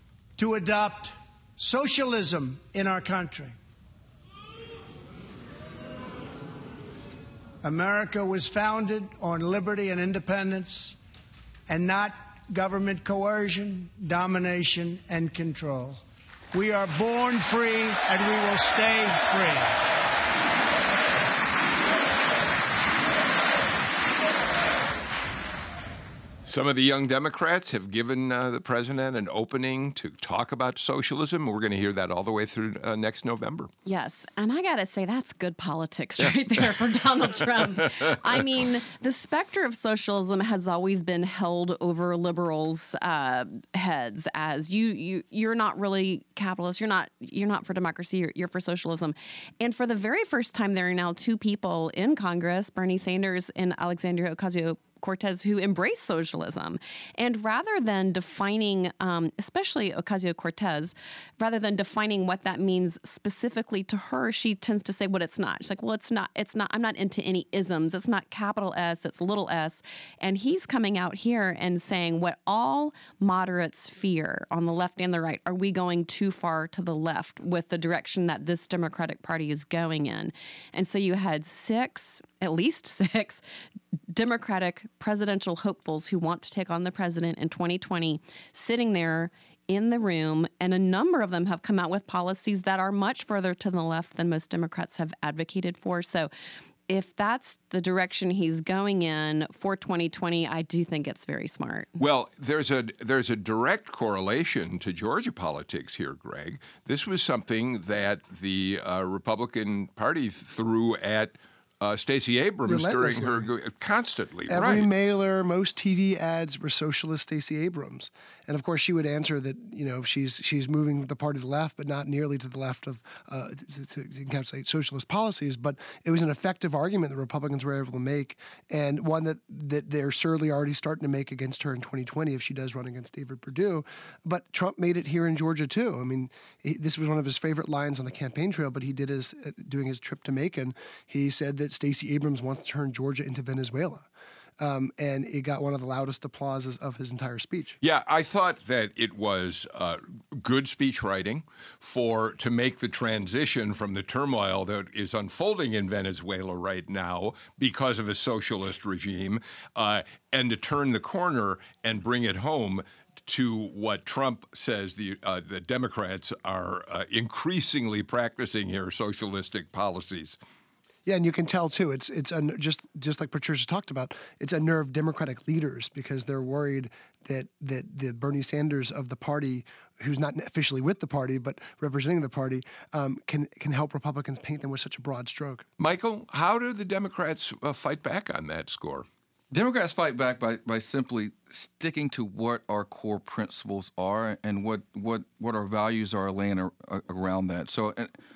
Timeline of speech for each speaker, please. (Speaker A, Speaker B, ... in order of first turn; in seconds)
Speaker A: 0.4-3.5, 7.6-11.0, 11.7-16.0, 16.5-19.8
Speaker B: 26.4-33.7, 102.0-114.9, 147.8-170.4, 185.8-189.1
Speaker C: 33.9-83.4, 84.1-96.3, 96.9-101.9
Speaker D: 112.7-113.5, 114.5-144.1, 144.6-147.8, 171.1-185.7
Speaker E: 189.5-198.1